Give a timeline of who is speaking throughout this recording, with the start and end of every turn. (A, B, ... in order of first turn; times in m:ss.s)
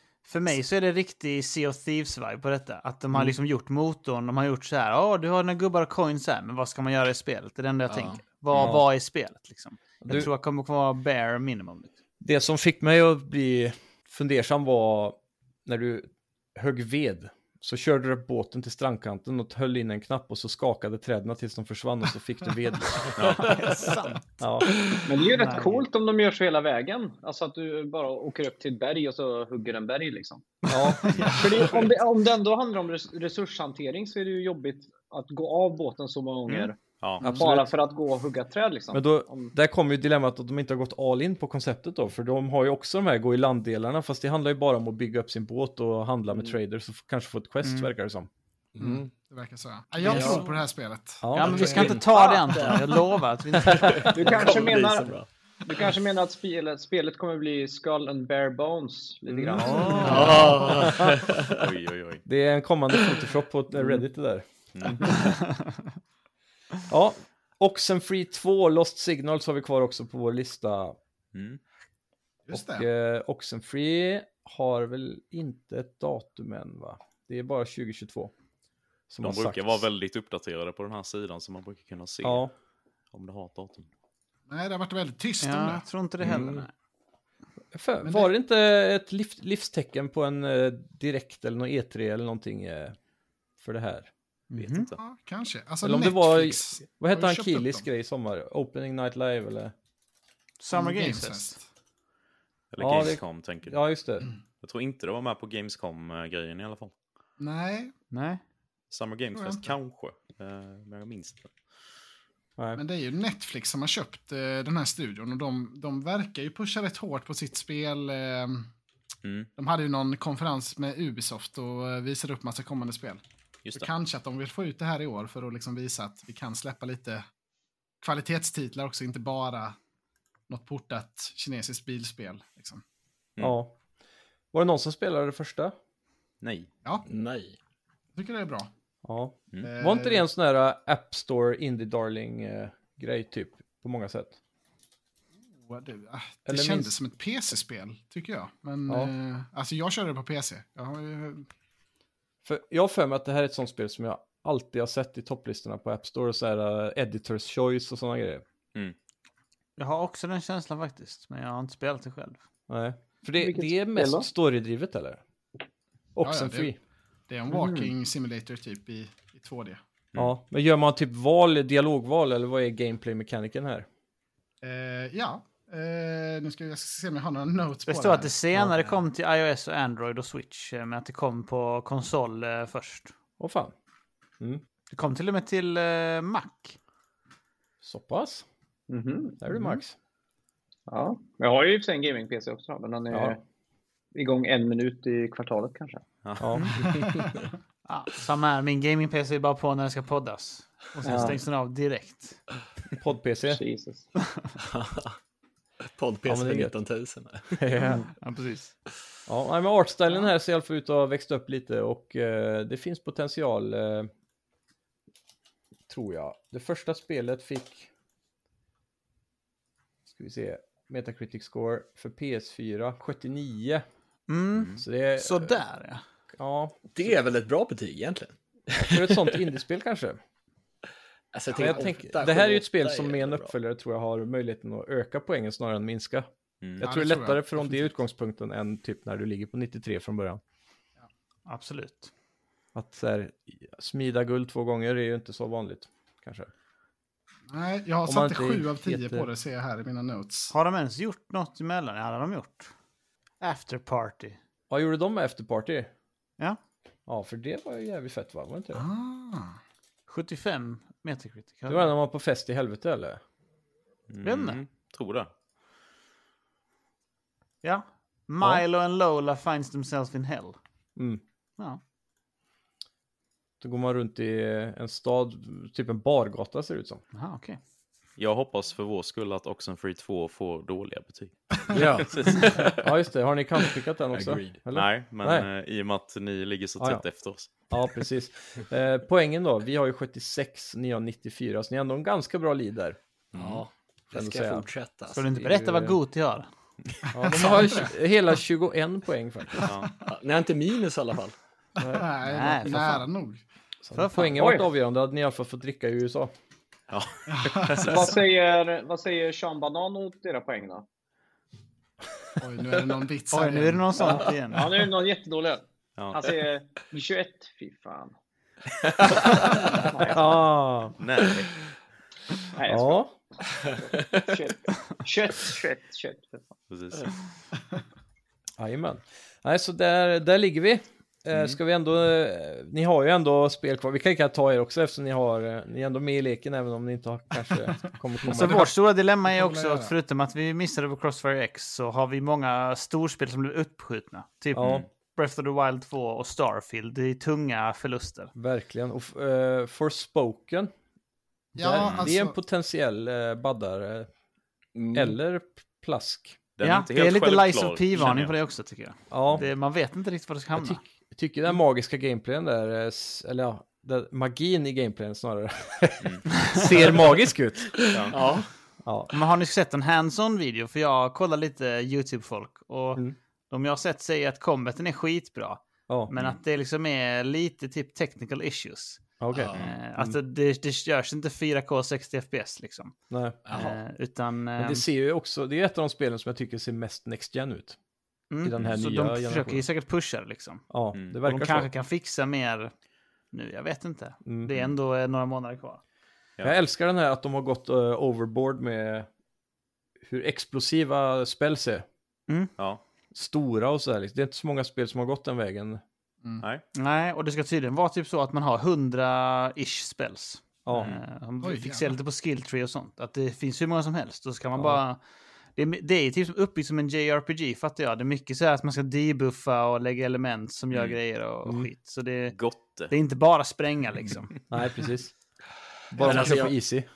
0:00.2-0:11.9 A
0:07.9-0:08.2 B
0:08.6-0:08.8 C
0:10.0-0:10.3 C
0:12.2-0:23.6 C
0:23.2-0:23.6 D
0:23.4-0:24.4 A
0:24.4-0:24.7 C
0:25.0-0:30.6 E
0:25.3-0:25.8 A
0:30.7-0:31.7 C
0:30.9-0:31.3 A
0:31.2-0:31.7 F
0:31.3-0:39.5 E
0:37.2-0:37.7 C
0:38.9-0:48.3 C
0:47.6-0:47.9 A
0:48.8-0:49.1 B
0:48.8-0:51.9 F
0:50.0-0:50.5 A
0:50.1-0:50.4 B
0:51.2-0:51.8 C
0:51.3-0:54.4 A
0:51.4-0:55.3 B
0:53.8-0:54.1 C
0:54.1-1:00.3 E
0:59.3-1:01.5 C
0:59.6-1:00.5 A
0:59.8-1:00.1 F
1:00.0-1:01.7 B
1:01.4-1:02.2 D
1:02.3-1:05.1 C
1:03.8-1:04.0 B
1:04.7-1:05.2 D
1:05.2-1:05.7 A
1:06.9-1:11.0 C
1:11.3-1:11.6 D
1:12.5-1:12.9 F
1:12.5-1:18.3 C
1:19.1-1:19.9 C
1:19.2-1:22.4 D
1:22.2-1:22.5 C
1:23.1-1:23.9 D
1:24.5-1:25.8 F
1:25.4-1:26.7 A
1:26.2-1:26.7 B
1:27.7-1:33.0 C
1:28.0-1:28.3 F
1:33.6-1:34.1 C
1:34.5-1:34.9 A
1:34.6-1:35.0 D
1:35.0-1:37.8 F
1:35.8-1:39.7 C
1:40.6-1:41.6 A
1:40.7-1:41.6 F
1:42.7-1:43.8 D
1:42.8-1:44.3 C
1:44.6-1:46.9 D
1:47.4-1:47.9 F
1:48.1-1:48.4 A
1:48.9-1:51.5 D
1:49.3-1:49.7 F
1:52.8-1:58.7 F
1:59.6-2:03.2 F
2:03.7-2:07.2 F
2:08.0-2:09.8 F
2:10.5-2:12.8 F
2:13.4-2:13.8 C
2:14.5-2:15.8 C
2:16.4-2:16.7 D
2:17.1-2:17.6 B
2:18.2-2:18.7 F
2:19.0-2:24.4 C
2:19.6-2:20.2 F
2:25.6-2:31.5 F
2:26.5-2:27.0 C
2:28.9-2:29.1 C
2:32.4-2:38.4 C
2:39.8-2:42.4 A
2:42.7-2:45.2 C
2:43.4-2:44.3 E
2:46.2-2:46.8 C
2:46.2-2:46.7 F
2:47.3-2:49.8 F
2:47.5-2:47.9 E
2:50.2-2:53.9 C
2:54.6-2:58.3 F
2:57.9-3:03.1 A
3:03.4-3:03.7 C
3:04.9-3:06.8 A
3:07.8-3:08.5 C
3:08.9-3:09.4 E
3:09.4-3:10.0 C
3:10.9-3:13.4 E
3:14.1-3:16.0 E
3:16.2-3:16.5 D
3:16.4-3:17.0 C
3:17.0-3:17.3 F
3:17.9-3:22.4 A
3:21.0-3:21.4 E
3:23.0-3:23.6 C
3:23.5-3:24.1 E
3:24.7-3:25.2 B
3:26.0-3:27.6 B
3:26.3-3:26.7 C
3:27.5-3:28.1 C
3:28.2-3:28.7 A
3:29.3-3:34.1 C
3:35.9-3:37.9 C
3:40.1-3:43.8 C
3:44.3-3:46.0 A
3:44.6-3:44.8 D
3:44.8-3:45.6 C
3:46.4-3:47.1 C
3:46.9-3:49.4 B
3:48.8-3:50.2 C
3:51.3-3:53.5 B
3:51.5-3:51.9 F
3:51.6-4:00.4 C
3:56.8-3:57.9 F
4:01.5-4:02.1 A
4:02.8-4:06.5 C
4:07.5-4:10.5 F
4:08.1-4:09.3 C
4:10.5-4:12.7 A
4:13.4-4:14.4 A
4:14.7-4:15.9 C
4:17.1-4:18.9 C
4:18.8-4:19.6 F
4:20.1-4:21.9 A
4:21.7-4:23.2 C
4:24.1-4:25.3 D
4:24.2-4:24.6 A
4:27.6-4:30.6 A
4:31.0-4:31.2 C
4:33.6-4:37.0 C
4:37.1-4:37.6 A
4:38.2-4:42.7 D
4:41.7-4:42.9 B
4:42.8-4:45.5 C
4:44.1-4:44.6 B
4:44.7-4:47.5 D
4:46.8-4:47.0 C
4:47.6-4:53.0 C
4:53.3-4:53.6 D
4:53.4-4:55.2 B
4:54.1-4:54.7 C
4:55.1-4:56.5 A
4:55.3-4:56.0 C
4:57.1-4:59.7 C
4:57.2-4:57.9 F
4:59.6-4:59.9 D
5:00.1-5:01.4 B
5:01.8-5:02.1 C
5:01.9-5:03.4 F
5:02.3-5:03.1 A
5:03.8-5:06.3 C
5:03.9-5:04.5 A
5:04.4-5:04.7 E
5:06.9-5:08.2 D
5:07.3-5:07.8 F
5:07.8-5:10.9 E
5:12.4-5:14.1 F
5:13.3-5:14.7 A
5:14.0-5:18.1 E
5:19.2-5:20.4 E
5:20.0-5:21.0 C
5:21.0-5:21.6 D
5:22.6-5:23.1 E
5:22.7-5:23.1 C
5:23.8-5:26.5 E
5:23.9-5:24.2 B
5:26.7-5:27.1 D
5:28.6-5:38.7 C
5:38.2-5:48.3 A
5:38.3-5:38.7 F
5:39.2-5:39.9 F
5:44.6-5:44.8 C
5:44.6-5:44.9 D
5:48.4-5:50.7 C
5:51.6-5:52.4 F
5:51.6-5:54.1 C
5:51.8-5:52.1 D
5:54.8-5:55.1 B
5:54.9-5:56.4 C
5:56.6-5:58.4 D
5:56.6-6:00.8 A
5:59.1-5:59.4 C
6:00.6-6:08.1 C
6:07.9-6:08.2 D
6:08.1-6:08.5 B
6:08.8-6:09.1 C
6:09.1-6:19.0 A
6:19.2-6:20.2 C
6:19.3-6:19.7 B
6:19.5-6:23.0 A
6:23.1-6:23.4 C
6:23.5-6:23.8 B
6:23.5-6:24.8 A
6:24.6-6:27.8 C
6:28.3-6:30.6 A
6:28.4-6:29.6 C
6:30.7-6:31.7 C
6:31.2-6:32.7 A
6:33.3-6:35.8 A
6:34.2-6:34.6 C
6:36.4-6:39.1 C
6:40.0-6:41.9 C
6:43.1-6:45.8 C
6:46.7-6:55.0 A
6:50.6-6:51.0 C
6:51.4-6:52.0 F
6:54.6-6:54.8 C
6:55.6-7:02.4 A
7:00.7-7:01.0 D
7:02.3-7:02.9 D
7:02.9-7:04.4 A
7:04.5-7:05.1 C
7:05.9-7:06.9 C
7:05.9-7:06.6 B
7:06.0-7:06.4 A